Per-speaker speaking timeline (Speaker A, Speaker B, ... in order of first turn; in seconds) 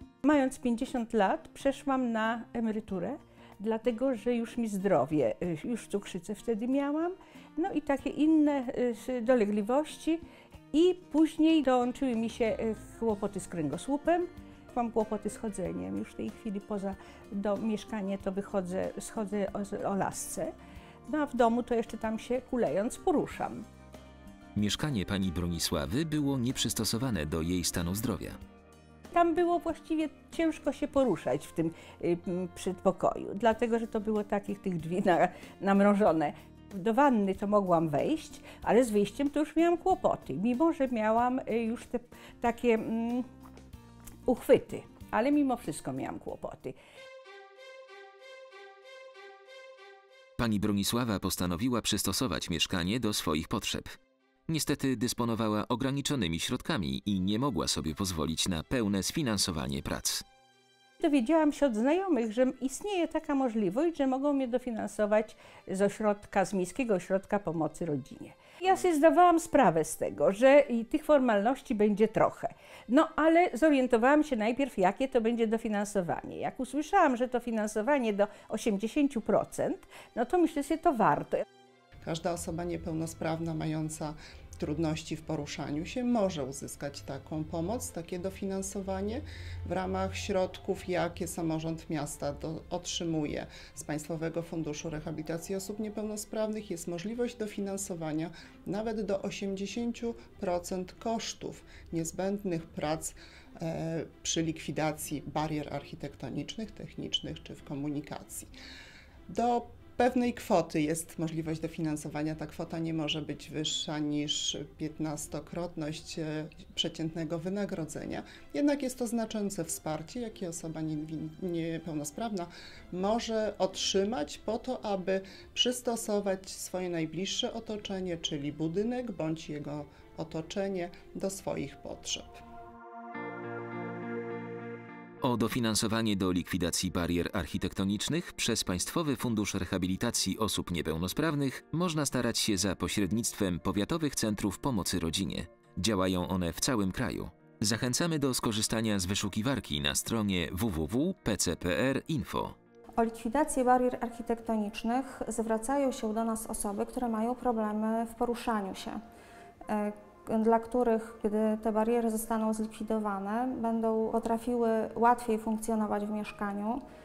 Speaker A: 0.2-10.2, 10.7-20.5, 21.1-23.6, 29.1-43.2, 44.3-46.7, 61.0-81.4
Speaker B: 24.5-28.4, 50.4-53.9, 54.5-60.2, 135.2-152.5
Speaker C: 82.0-108.5, 109.3-132.4
Speaker D: 152.9-159.0, 159.7-166.8